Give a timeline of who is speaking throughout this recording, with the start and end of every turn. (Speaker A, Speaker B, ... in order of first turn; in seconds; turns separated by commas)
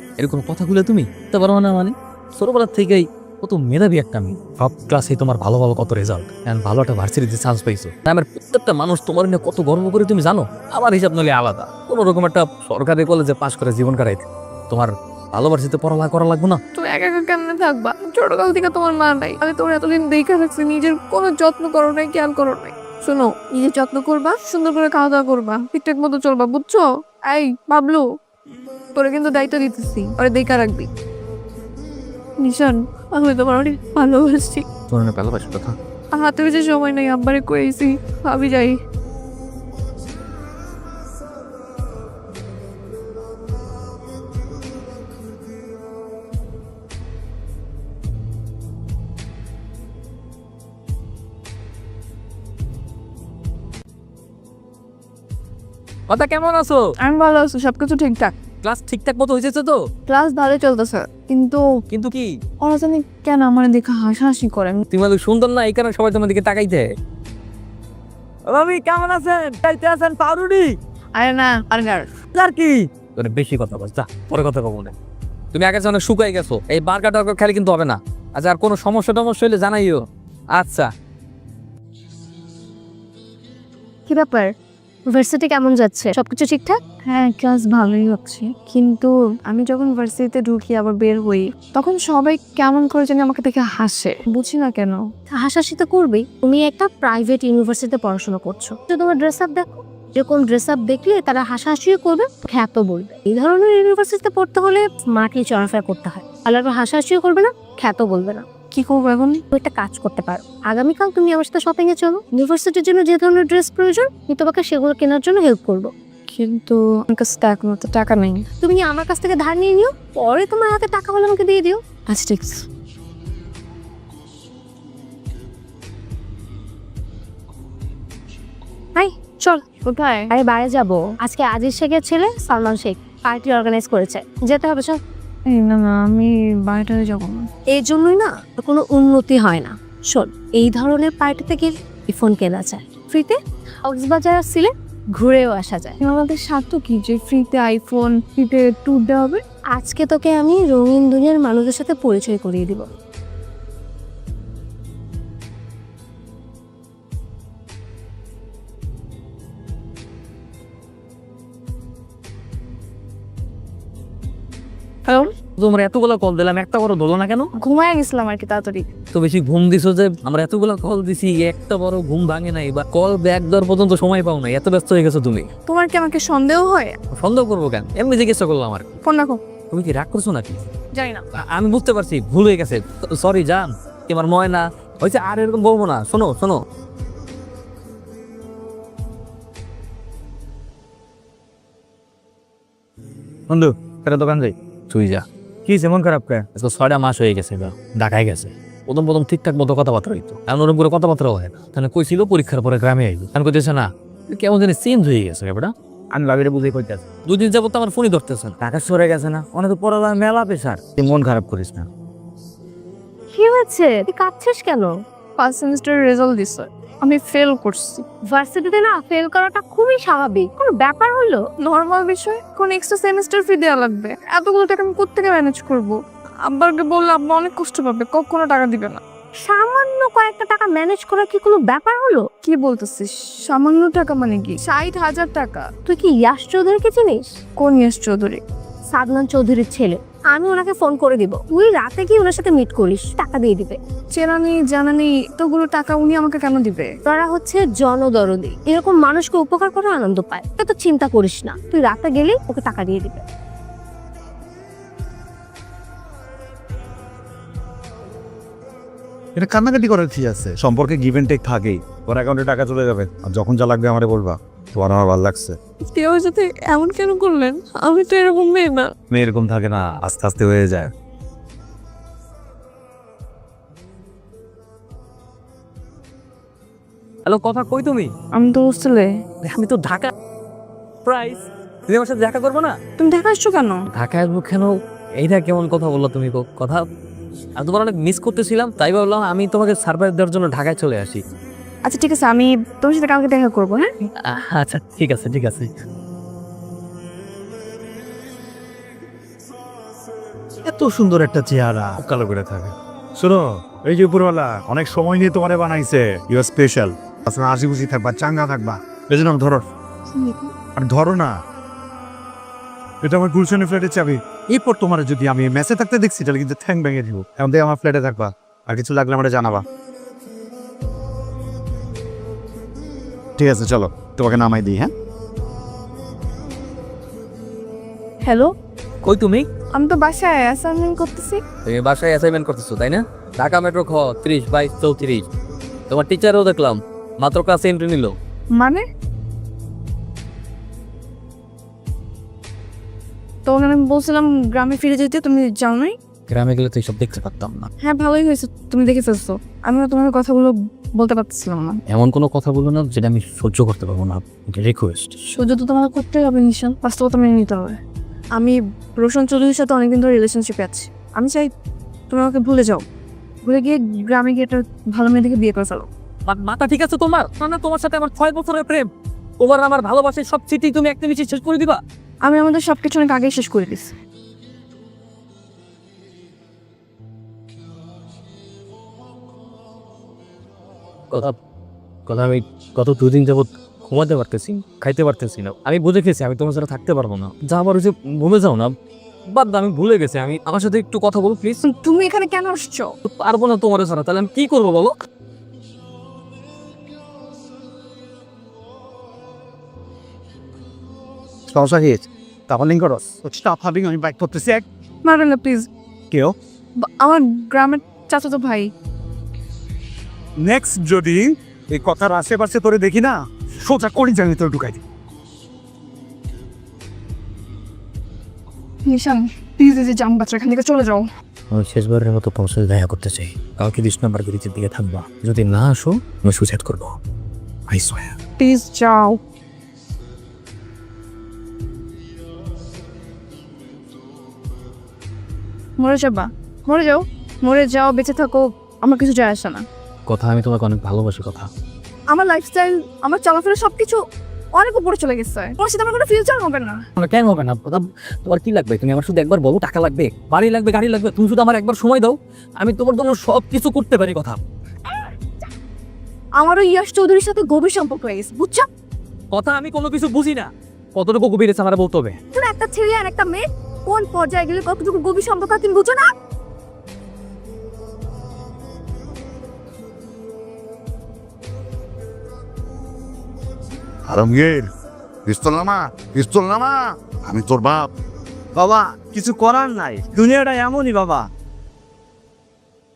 Speaker A: 0.2-16.6, Speaker B: 16.8-28.0, Speaker B: 28.9-30.9, Speaker B: 32.4-34.6, Speaker A: 34.9-35.8, Speaker B: 36.1-38.8, Speaker A: 56.1-56.8, Speaker B: 57.0-58.3, Speaker A: 58.6-59.8, Speaker B: 60.1-61.6, Speaker A: 61.9-62.3, Speaker B: 62.6-64.8, Speaker A: 64.9-66.9, Speaker A: 68.5-70.7, Speaker B: 71.2-72.1, Speaker A: 72.4-74.9, Speaker A: 75.5-80.0, Speaker A: 80.6-80.9, Speaker B: 84.1-84.5, Speaker C: 85.1-86.8, Speaker B: 87.0-95.0, Speaker C: 95.3-108.5, Speaker B: 108.7-109.4, Speaker C: 109.5-115.9, Speaker B: 116.3-118.5, Speaker C: 118.6-121.8, Speaker B: 122.1-122.6, Speaker C: 129.0-129.6, Speaker B: 129.7-130.3, Speaker C: 130.3-135.0, Speaker B: 135.5-137.5, Speaker C: 137.7-146.0, Speaker B: 146.0-149.4, Speaker C: 149.8-152.9, Speaker A: 165.6-167.5, Speaker B: 167.6-168.9, Speaker A: 169.1-175.5, Speaker B: 175.7-176.9, Speaker A: 177.2-178.9, Speaker B: 179.0-179.4, Speaker A: 179.7-180.6, Speaker B: 180.9-181.2, Speaker A: 181.4-186.6, Speaker D: 193.5-194.5, Speaker A: 194.9-195.2, Speaker D: 195.7-196.4, Speaker A: 196.6-205.7, Speaker D: 206.1-207.0, Speaker A: 207.3-208.6, Speaker D: 208.6-211.9, Speaker C: 213.3-215.0, Speaker B: 215.4-218.0, Speaker C: 218.3-221.4, Speaker B: 221.6-226.0, Speaker B: 226.5-229.0, Speaker C: 229.4-232.3, Speaker B: 232.4-235.7, Speaker C: 235.9-237.3, Speaker B: 237.6-238.4, Speaker C: 238.9-243.8, Speaker B: 244.1-246.9, Speaker C: 247.1-253.2, Speaker E: 259.4-265.6, Speaker B: 265.9-268.9, Speaker E: 269.2-270.9, Speaker A: 277.2-278.1, Speaker B: 278.3-279.1, Speaker A: 279.4-280.1, Speaker A: 281.1-282.8, Speaker B: 283.0-283.8, Speaker A: 283.9-286.8, Speaker A: 287.6-291.2, Speaker B: 291.9-293.9, Speaker A: 294.3-295.7, Speaker E: 300.7-309.6, Speaker B: 310.1-310.5, Speaker E: 310.8-311.4, Speaker E: 313.0-319.6, Speaker E: 323.4-324.9, Speaker B: 328.2-328.5, Speaker A: 329.0-329.5, Speaker B: 329.7-331.4, Speaker A: 331.6-335.3, Speaker A: 335.9-338.2, Speaker B: 338.6-338.8, Speaker B: 343.4-345.9, Speaker A: 346.3-347.7, Speaker B: 347.8-351.8, Speaker A: 351.9-355.2, Speaker B: 355.3-357.8, Speaker B: 358.4-361.5, Speaker B: 362.1-362.9, Speaker B: 363.4-365.9, Speaker A: 366.3-368.9, Speaker A: 369.4-371.8, Speaker B: 372.2-373.9, Speaker A: 382.1-388.7, Speaker A: 389.3-391.6, Speaker B: 391.6-392.9, Speaker A: 393.1-395.0, Speaker E: 401.5-404.6, Speaker B: 405.0-405.7, Speaker B: 406.8-408.7, Speaker E: 410.4-414.8, Speaker B: 418.9-421.0, Speaker A: 421.5-427.0, Speaker A: 427.7-428.1, Speaker B: 428.4-429.2, Speaker B: 435.8-439.6, Speaker A: 440.1-441.5, Speaker B: 442.1-444.0, Speaker B: 444.6-446.8, Speaker A: 447.0-454.4, Speaker B: 456.4-458.7, Speaker A: 459.3-462.2, Speaker B: 462.3-466.1, Speaker F: 474.1-474.7, Speaker F: 475.3-477.9